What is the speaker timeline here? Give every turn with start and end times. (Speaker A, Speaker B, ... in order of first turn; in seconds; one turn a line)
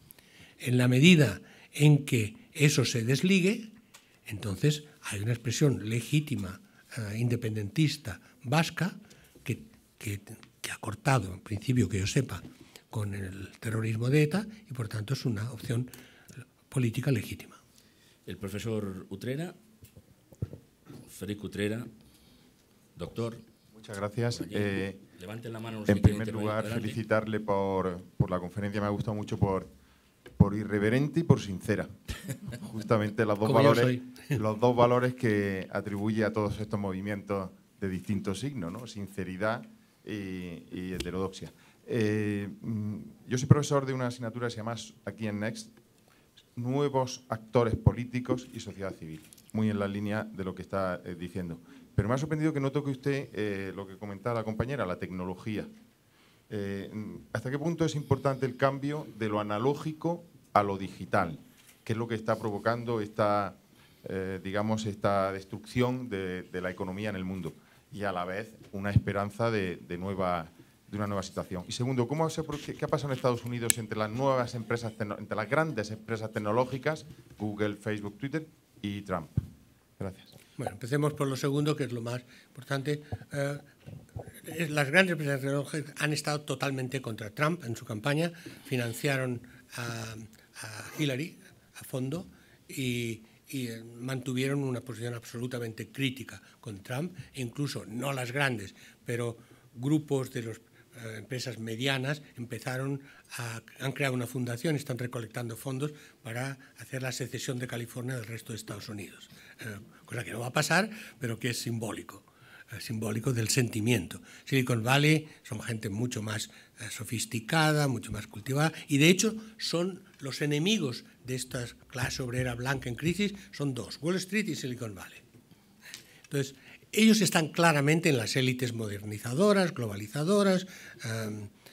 Speaker A: 0.6-3.7
Speaker A: 4.2-15.9
Speaker A: 16.7-17.6
Speaker B: 18.2-19.5
Speaker B: 21.1-21.9
Speaker B: 22.9-23.4
Speaker C: 23.7-25.0
Speaker B: 24.3-27.0
Speaker C: 25.9-29.7
Speaker C: 30.4-31.9
Speaker C: 32.5-45.7
Speaker A: 33.4-34.4
Speaker C: 46.5-55.7
Speaker C: 56.5-79.4
Speaker C: 80.0-80.3
Speaker A: 80.6-83.7
Speaker A: 84.3-125.2
Speaker A: 126.3-131.5